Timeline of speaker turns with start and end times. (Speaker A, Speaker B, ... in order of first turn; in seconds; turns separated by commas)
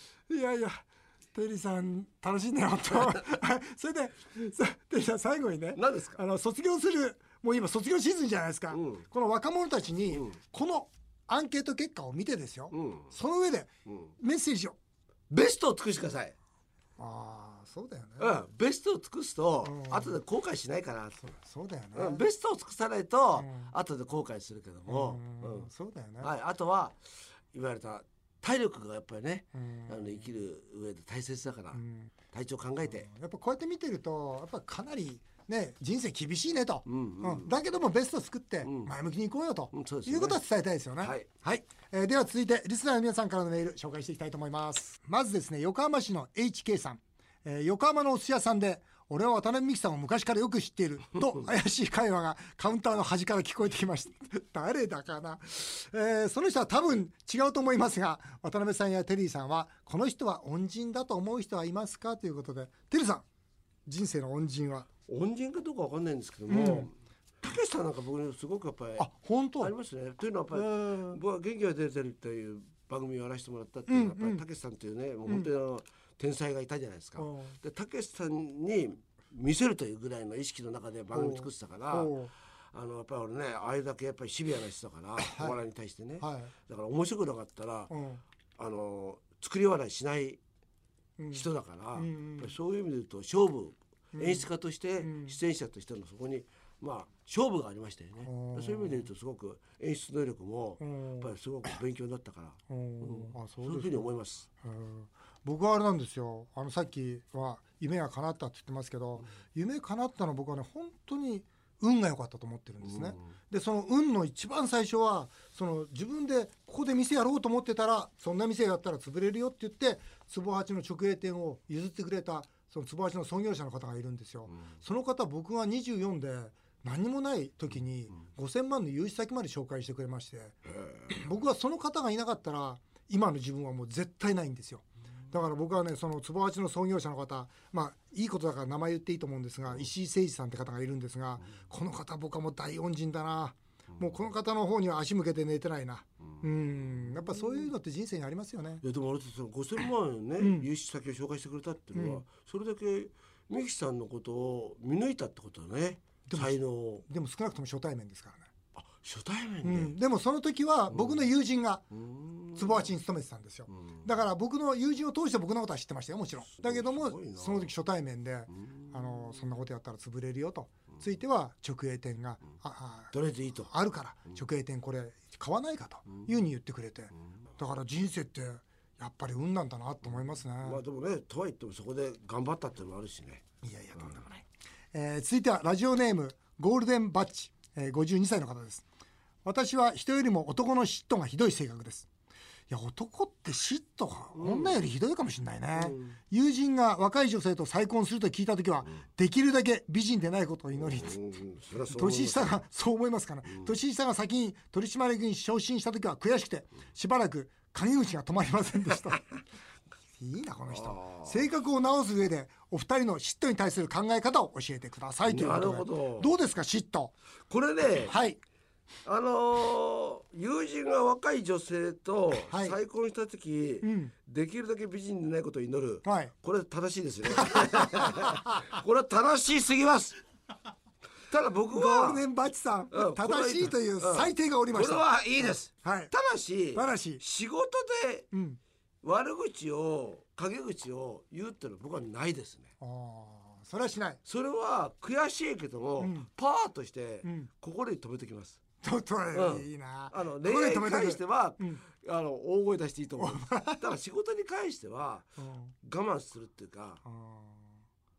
Speaker A: 0.3-14.8, Speaker B: 5.8-6.2, Speaker B: 8.7-9.1, Speaker B: 10.1-10.4, Speaker B: 12.7-13.1, Speaker B: 13.9-14.1, Speaker B: 15.3-16.4, Speaker A: 17.0-18.4, Speaker B: 18.2-21.2, Speaker A: 19.6-20.2, Speaker A: 21.2-22.2, Speaker B: 21.9-25.7, Speaker A: 23.4-23.7, Speaker A: 24.9-26.3, Speaker B: 26.2-27.0, Speaker B: 27.5-31.8, Speaker A: 29.5-30.4, Speaker A: 31.7-32.1, Speaker B: 32.3-33.1, Speaker A: 32.9-63.2, Speaker B: 36.9-37.5, Speaker B: 38.6-38.9, Speaker B: 39.7-40.4, Speaker B: 41.0-41.3, Speaker A: 63.9-64.9, Speaker B: 65.1-69.1, Speaker A: 66.5-66.9, Speaker A: 69.0-69.7, Speaker B: 69.6-82.1, Speaker A: 70.5-71.2, Speaker A: 73.9-74.4, Speaker A: 77.2-77.6, Speaker A: 81.1-82.3, Speaker B: 82.7-87.9, Speaker A: 85.2-85.6, Speaker A: 86.2-86.5, Speaker A: 87.9-88.2, Speaker B: 88.6-90.4, Speaker A: 91.2-92.5, Speaker B: 91.3-104.5, Speaker A: 94.2-94.5, Speaker A: 95.0-95.4, Speaker A: 98.2-99.1, Speaker A: 100.8-101.3, Speaker A: 102.7-130.6, Speaker B: 112.8-113.3, Speaker B: 130.8-131.1, Speaker A: 131.1-148.8, Speaker B: 147.0-147.4, Speaker B: 148.8-157.0, Speaker A: 150.4-150.7, Speaker A: 151.9-152.2, Speaker A: 156.3-158.5, Speaker B: 158.8-159.9, Speaker A: 159.6-161.9, Speaker B: 160.9-161.3, Speaker B: 161.9-162.9, Speaker A: 162.6-173.1, Speaker B: 166.5-167.7, Speaker B: 168.6-169.4, Speaker B: 173.1-173.7, Speaker A: 173.7-180.8, Speaker B: 180.6-183.4, Speaker A: 183.6-188.8, Speaker A: 189.4-192.1, Speaker A: 192.7-201.2, Speaker B: 194.3-194.8, Speaker B: 195.8-196.2, Speaker B: 200.7-202.6, Speaker A: 201.9-209.2, Speaker B: 203.5-203.7, Speaker A: 210.2-217.1, Speaker B: 210.7-211.4, Speaker B: 215.3-216.3, Speaker B: 217.5-218.2, Speaker A: 218.1-218.4, Speaker B: 219.1-230.2, Speaker A: 222.5-222.8, Speaker A: 223.8-224.1, Speaker A: 226.1-226.3, Speaker A: 227.3-228.7, Speaker B: 231.3-232.2, Speaker A: 231.7-236.1, Speaker B: 232.9-238.3, Speaker A: 236.7-237.2, Speaker A: 238.3-238.6, Speaker B: 239.0-242.7, Speaker A: 242.8-244.2, Speaker B: 244.3-248.6, Speaker A: 246.0-246.3, Speaker A: 247.2-247.5, Speaker A: 248.8-251.8, Speaker B: 249.3-255.3, Speaker A: 253.2-253.8, Speaker A: 255.4-255.7, Speaker B: 255.8-257.0, Speaker A: 257.1-257.6